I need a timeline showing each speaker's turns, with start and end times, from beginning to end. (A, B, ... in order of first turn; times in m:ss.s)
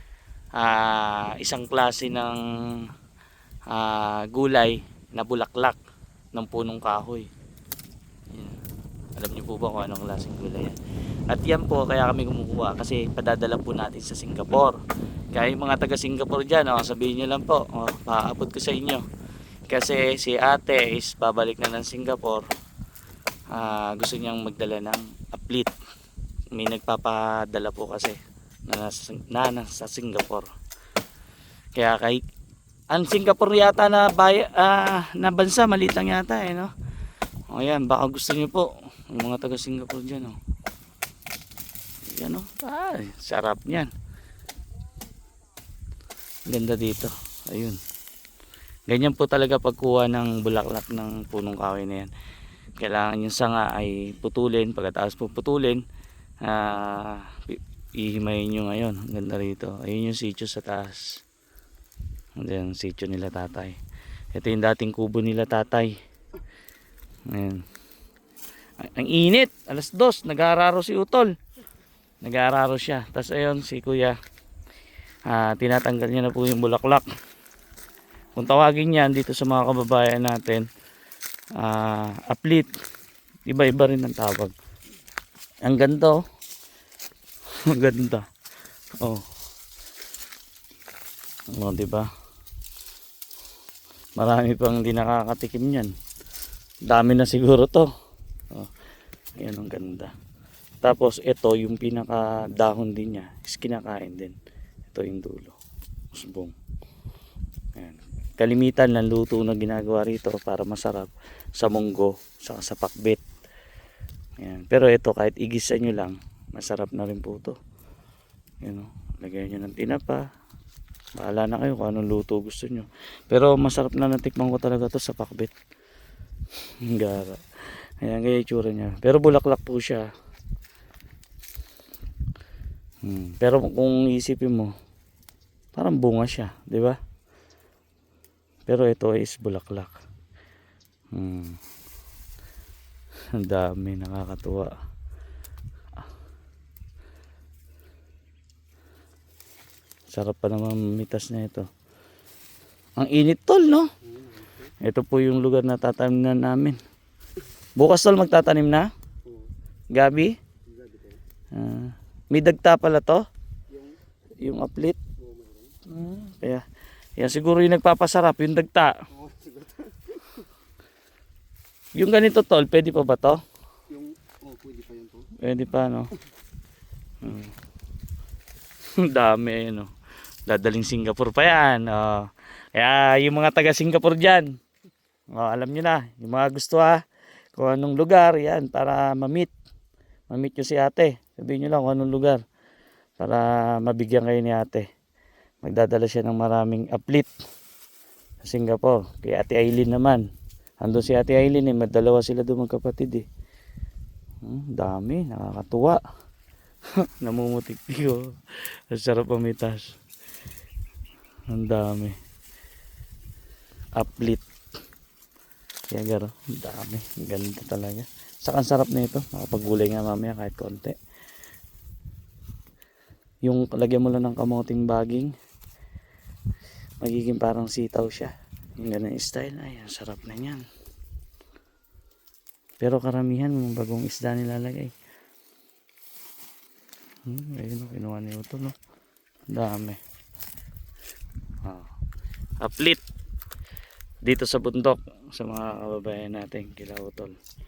0:00.5-0:02.8 A
0:03.7-0:05.8 A
0:06.3-0:07.3 A
0:08.3-0:08.6 A
0:09.1-0:10.7 A
0:11.3-0:14.8 A
0:15.3-0:19.0 A
0:19.7-0:22.4 A
0:23.5-0:25.7 A
0:26.5-0:30.5 A
0:31.8-0:32.2 A
0:32.9-0:36.7 A
0:37.5-0:40.4 A
0:42.1-0:43.9 A
0:46.5-0:47.8 A
0:48.9-0:52.1 A
0:52.8-0:55.8 A
0:56.4-1:01.2 A
1:02.4-1:03.8 A
1:04.3-1:05.9 A
1:07.3-1:07.6 A
1:08.8-1:11.3 A
1:12.2-1:14.2 A
1:15.3-1:17.0 A
1:18.4-1:20.6 A
1:21.6-1:22.7 A
1:23.5-1:24.5 A
1:25.6-1:26.2 A
1:27.7-1:28.2 A
1:31.5-1:32.1 A
1:34.2-1:35.9 A
1:36.9-1:37.9 A
1:39.4-1:40.1 A
1:40.8-1:44.3 A
1:44.9-1:45.6 A
1:46.1-1:46.5 A
1:47.8-1:53.2 A
1:54.4-1:57.5 A
1:58.6-2:00.2 A
2:01.2-2:05.5 A
2:06.8-2:10.1 A
2:13.0-2:14.7 A
2:15.7-2:17.0 A
2:18.7-2:20.0 A
2:21.1-2:21.6 A
2:23.3-2:24.7 A
2:30.1-2:31.7 A
2:33.0-2:33.9 A
2:34.2-2:34.6 B
2:34.8-2:36.8 A
2:37.8-2:38.9 A
2:39.9-2:40.4 A
2:40.7-2:41.2 B
2:41.5-2:43.2 A
2:44.4-2:45.0 A
2:45.2-2:45.7 B
2:45.9-2:46.6 A
2:47.2-2:48.9 A
2:49.1-2:50.2 B
2:51.9-2:53.4 A
2:53.9-2:55.3 B
2:55.4-2:56.1 A
2:57.2-2:57.5 A
2:59.0-2:59.9 A
3:00.5-3:04.5 A
3:05.3-3:07.0 A
3:07.6-3:09.5 A
3:10.3-3:12.4 A
3:13.2-3:14.8 A
3:15.6-3:17.3 A
3:18.4-3:20.2 A
3:20.8-3:23.2 A
3:24.4-3:26.0 A
3:27.0-3:28.3 A
3:28.9-3:29.9 A
3:31.5-3:32.2 A
3:34.0-3:34.4 A
3:35.9-3:41.0 A
3:43.4-3:45.3 A
3:47.0-3:50.6 A
3:52.8-3:54.9 A
3:57.3-3:58.7 A
3:59.5-4:00.0 A
4:01.6-4:01.9 A
4:02.6-4:03.0 A
4:04.2-4:07.3 A